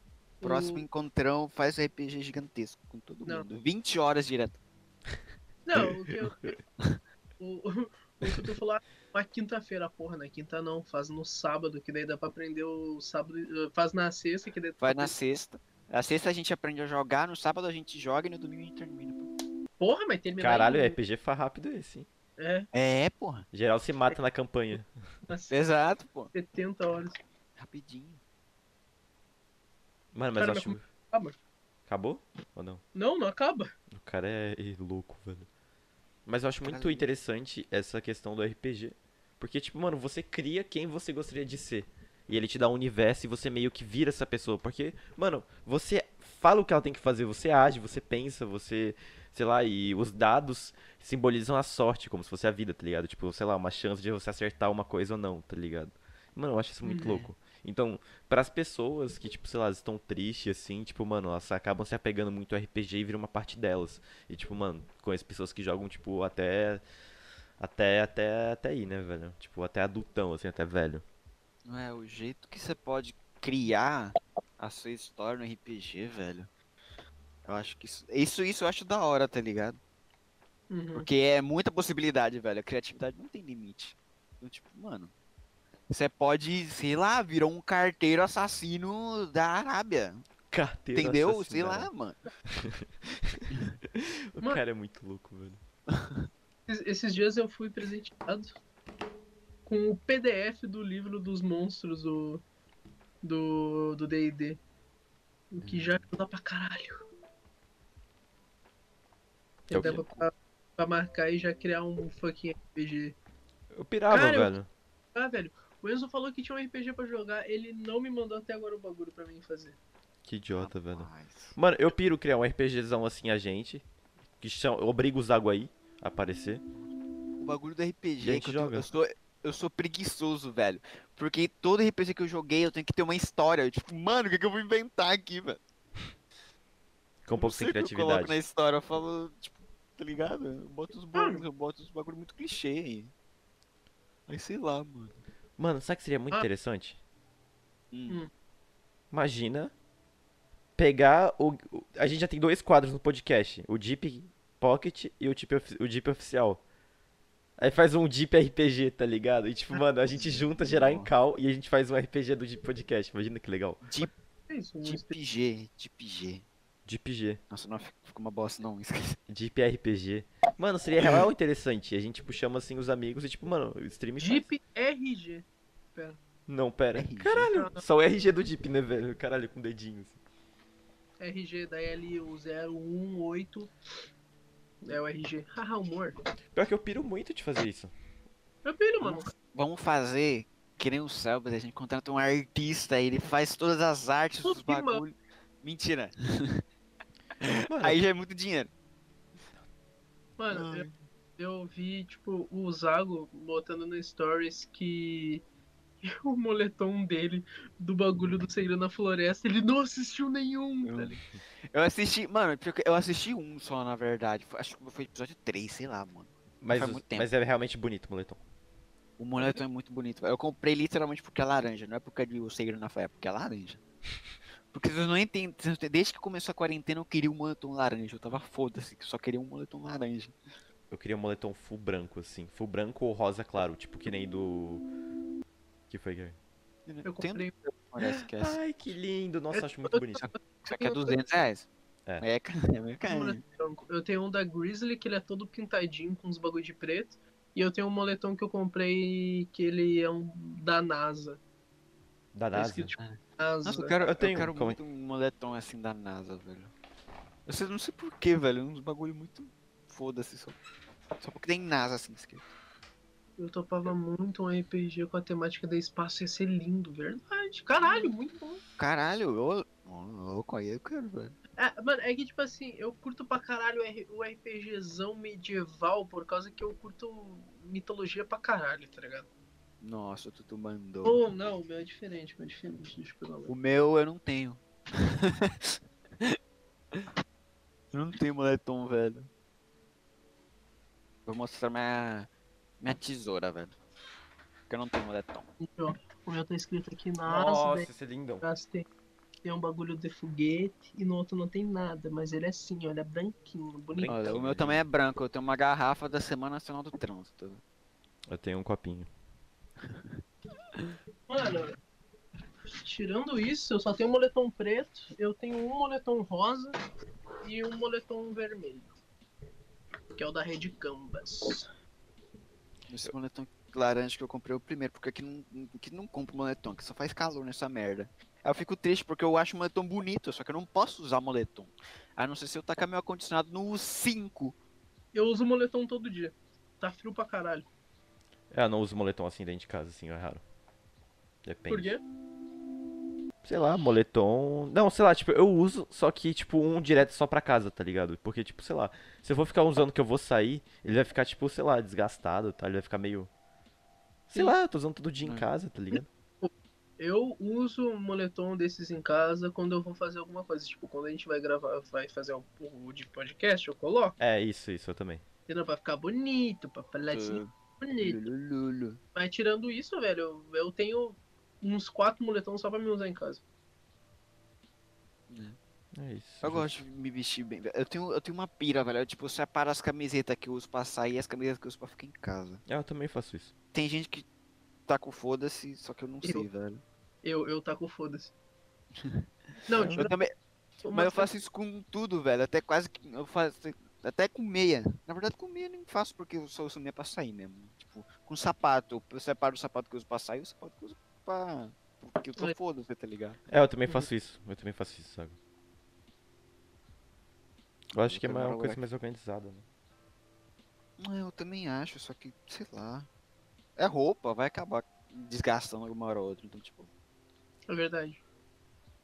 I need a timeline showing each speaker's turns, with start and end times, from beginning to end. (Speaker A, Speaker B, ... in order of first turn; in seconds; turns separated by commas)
Speaker A: 0.4-0.8, Speaker B: 0.4-4.6, Speaker A: 5.7-6.6, Speaker A: 7.4-15.1, Speaker B: 14.8-19.3, Speaker A: 19.8-21.0, Speaker C: 20.4-22.1, Speaker A: 22.4-22.7, Speaker B: 22.7-23.5, Speaker C: 23.5-24.9, Speaker A: 25.3-25.5, Speaker B: 25.5-26.3, Speaker A: 26.3-27.2, Speaker B: 27.6-28.2, Speaker C: 30.1-30.9, Speaker A: 30.4-31.4, Speaker C: 31.9-32.8, Speaker A: 33.0-33.7, Speaker C: 34.0-35.5, Speaker C: 36.3-66.8, Speaker B: 36.7-37.1, Speaker A: 56.8-57.3, Speaker C: 67.6-71.0, Speaker B: 71.7-76.5, Speaker B: 77.5-79.8, Speaker A: 80.7-81.1, Speaker B: 80.9-85.1, Speaker B: 85.9-90.2, Speaker C: 90.5-91.9, Speaker B: 91.0-92.2, Speaker C: 92.5-95.6, Speaker B: 95.9-96.3, Speaker A: 96.7-98.5, Speaker A: 99.7-102.4, Speaker A: 103.2-104.6, Speaker A: 105.5-107.0, Speaker B: 105.6-106.0, Speaker A: 109.7-113.2, Speaker C: 109.7-110.0, Speaker B: 109.8-110.1, Speaker C: 113.8-114.7, Speaker A: 114.1-114.6, Speaker A: 115.1-119.8, Speaker C: 120.2-123.8, Speaker B: 120.5-121.6, Speaker C: 124.4-126.6, Speaker B: 127.4-135.6, Speaker C: 128.2-128.9, Speaker C: 137.2-138.4, Speaker B: 137.4-143.1, Speaker A: 141.2-141.4, Speaker B: 144.3-145.2, Speaker C: 145.6-147.0, Speaker B: 147.9-148.2, Speaker C: 149.1-149.7, Speaker C: 150.8-156.6, Speaker C: 157.6-163.9, Speaker B: 160.0-161.1, Speaker B: 163.8-164.1, Speaker A: 164.5-165.2, Speaker B: 164.8-166.4, Speaker C: 166.9-167.4, Speaker B: 167.5-169.2, Speaker C: 169.3-174.5, Speaker B: 171.0-171.3, Speaker A: 174.2-176.2, Speaker C: 176.5-180.2, Speaker B: 176.9-177.5, Speaker A: 177.6-177.8, Speaker A: 181.2-183.7, Speaker A: 184.8-186.2, Speaker C: 186.6-187.9, Speaker A: 188.6-189.3, Speaker B: 189.0-196.6, Speaker A: 194.4-195.0, Speaker B: 197.4-198.7, Speaker C: 197.7-198.0, Speaker A: 200.4-205.4, Speaker B: 200.5-201.0, Speaker A: 206.0-211.2, Speaker B: 210.8-217.3, Speaker C: 216.6-218.4, Speaker B: 219.2-223.8, Speaker A: 219.4-219.6, Speaker B: 224.7-230.3, Speaker C: 230.9-234.9, Speaker C: 235.9-236.4, Speaker B: 236.9-238.6, Speaker A: 237.1-237.5, Speaker C: 238.0-240.3, Speaker A: 239.6-241.2, Speaker B: 240.2-241.7, Speaker B: 242.2-243.4, Speaker A: 243.1-251.4, Speaker C: 252.3-252.9, Speaker A: 252.5-254.0, Speaker B: 253.0-256.7, Speaker C: 254.0-254.8, Speaker B: 257.5-260.6, Speaker B: 261.2-262.5, Speaker A: 263.4-268.6, Speaker B: 268.8-271.4, Speaker A: 271.6-279.3, Speaker B: 279.8-281.2, Speaker A: 281.0-283.5, Speaker B: 283.5-286.4, Speaker B: 287.9-289.3, Speaker B: 291.3-292.3, Speaker B: 292.8-293.8, Speaker B: 294.7-295.5, Speaker A: 295.6-297.9, Speaker C: 297.3-298.4, Speaker A: 298.4-298.9, Speaker A: 299.4-304.3, Speaker C: 303.9-304.8, Speaker B: 304.1-307.6, Speaker C: 308.3-309.1, Speaker B: 309.8-310.2, Speaker A: 311.3-311.8, Speaker A: 312.7-316.8, Speaker A: 317.4-318.9, Speaker A: 320.2-321.7, Speaker B: 322.9-334.6, Speaker A: 335.1-337.7, Speaker C: 338.5-340.4, Speaker C: 341.4-342.0, Speaker A: 341.7-342.0, Speaker C: 343.4-353.3, Speaker C: 354.3-356.1, Speaker B: 355.2-355.5, Speaker A: 356.4-364.2, Speaker C: 364.2-365.2, Speaker A: 365.5-368.2, Speaker B: 367.1-369.0, Speaker A: 369.1-373.4, Speaker B: 375.3-375.6, Speaker C: 375.9-376.9, Speaker B: 376.4-382.6, Speaker C: 382.7-383.5, Speaker B: 383.7-384.2, Speaker B: 384.9-386.8, Speaker A: 387.2-388.3, Speaker B: 389.0-390.3, Speaker A: 389.7-390.1, Speaker C: 389.8-390.1, Speaker A: 390.8-391.3, Speaker B: 390.9-403.4, Speaker C: 403.5-405.4, Speaker C: 407.9-409.6, Speaker B: 408.0-408.8, Speaker B: 411.0-413.1, Speaker B: 413.8-416.9, Speaker A: 417.7-418.2